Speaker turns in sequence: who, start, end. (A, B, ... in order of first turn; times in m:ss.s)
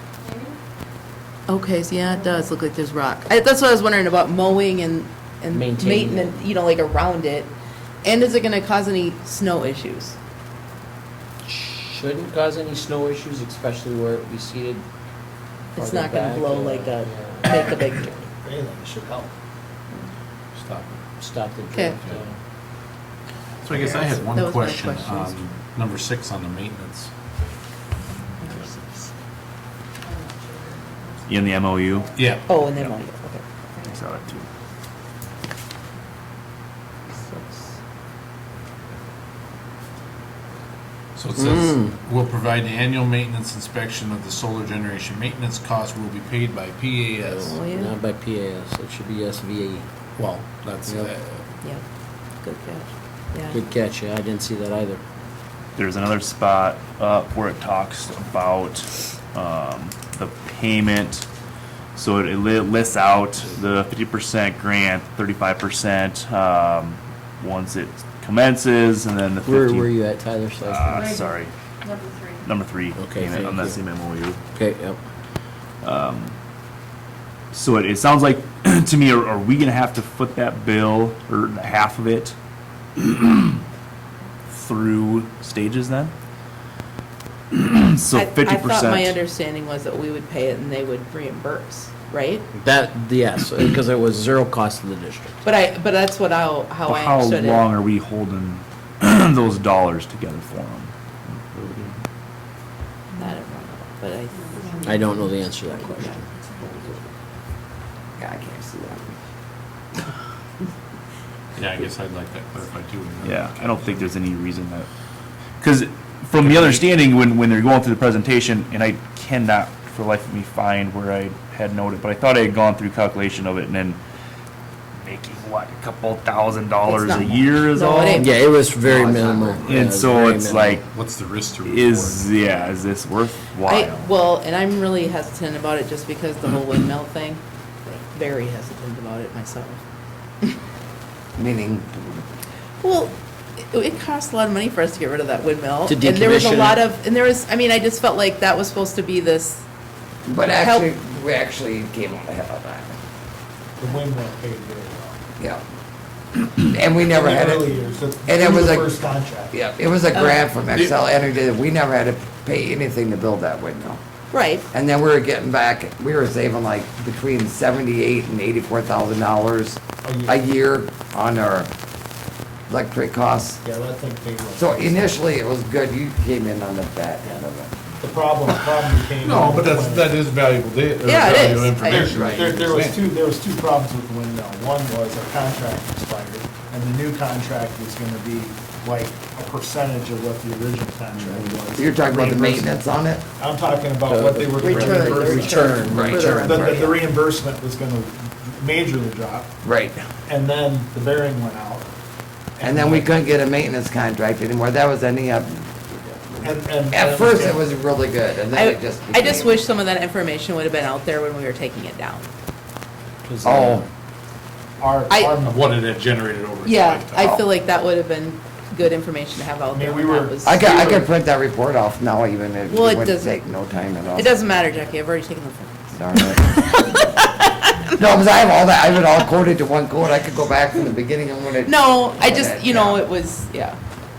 0:01.5-0:07.5 A
0:05.5-0:06.3 B
0:08.0-0:10.2 A
0:11.4-0:14.8 B
0:15.8-0:18.1 A
0:15.8-0:18.2 B
0:18.4-0:19.3 C
0:20.6-0:22.4 B
0:23.6-0:27.1 D
0:23.7-0:25.4 A
0:28.4-0:29.1 A
0:30.1-0:31.4 E
0:31.3-0:32.2 F
0:32.2-0:32.4 D
0:32.5-0:33.8 A
0:33.9-0:34.5 F
0:37.1-0:37.8 A
0:41.2-0:47.5 D
0:41.4-0:41.9 B
0:47.2-0:49.9 B
0:47.4-0:48.0 A
0:50.2-0:51.4 D
0:50.9-0:51.1 B
0:52.4-0:53.6 A
0:53.5-0:55.0 B
0:55.8-1:01.3 F
1:02.0-1:09.9 F
1:09.4-1:11.2 B
1:10.6-1:11.5 F
1:11.0-1:11.3 E
1:11.8-1:12.4 E
1:12.4-1:14.4 F
1:13.0-1:13.8 B
1:14.5-1:15.0 B
1:15.8-1:16.4 F
1:17.5-1:22.4 F
1:23.0-1:23.6 F
1:24.5-1:26.1 F
1:27.5-1:29.2 F
1:28.1-1:32.5 A
1:32.6-1:35.4 B
1:35.4-1:37.6 A
1:36.9-1:42.0 F
1:43.2-1:44.8 A
1:44.6-1:45.3 E
1:44.8-1:46.2 B
1:46.1-1:46.8 E
1:48.2-1:49.2 G
1:51.6-1:54.1 D
1:53.2-1:54.9 F
1:55.6-2:04.0 F
1:56.4-1:56.9 D
2:05.0-2:08.3 F
2:06.8-2:08.3 A
2:08.1-2:10.8 B
2:08.8-2:09.7 G
2:09.6-2:10.8 F
2:10.8-2:12.4 D
2:11.6-2:14.1 F
2:13.7-2:19.8 A
2:21.4-2:22.2 G
2:22.8-2:23.2 A
2:23.7-2:29.6 A
2:25.9-2:26.8 B
2:30.3-2:33.0 G
2:30.4-2:30.9 A
2:33.8-2:35.2 C
2:36.7-2:38.9 G
2:37.0-2:39.6 C
2:39.5-2:44.0 G
2:44.3-2:44.7 A
2:44.7-2:51.7 G
2:50.0-2:50.4 C
2:52.7-2:53.6 G
2:53.6-2:55.2 C
2:54.6-2:57.8 G
2:58.0-3:00.2 C
2:59.2-3:03.1 D
3:01.0-3:02.1 A
3:01.8-3:12.7 C
3:02.0-3:02.5 G
3:11.7-3:13.2 G
3:13.4-3:19.5 C
3:14.1-3:16.7 B
3:14.6-3:17.0 A
3:15.9-3:16.9 G
3:19.6-3:20.0 G
3:20.3-3:21.9 C
3:22.6-3:23.1 C
3:22.6-3:29.6 G
3:26.4-3:27.7 C
3:28.5-3:32.3 A
3:33.2-3:33.9 B
3:33.4-3:33.8 G
3:34.8-3:35.6 C
3:35.1-3:35.4 A
3:35.5-3:37.3 D
3:36.6-3:41.0 A
3:39.7-3:41.0 C
3:40.4-3:44.5 G
3:42.7-3:43.4 A
3:44.2-3:47.9 A
3:46.0-3:47.0 G
3:48.0-3:53.0 G
3:51.6-3:53.8 A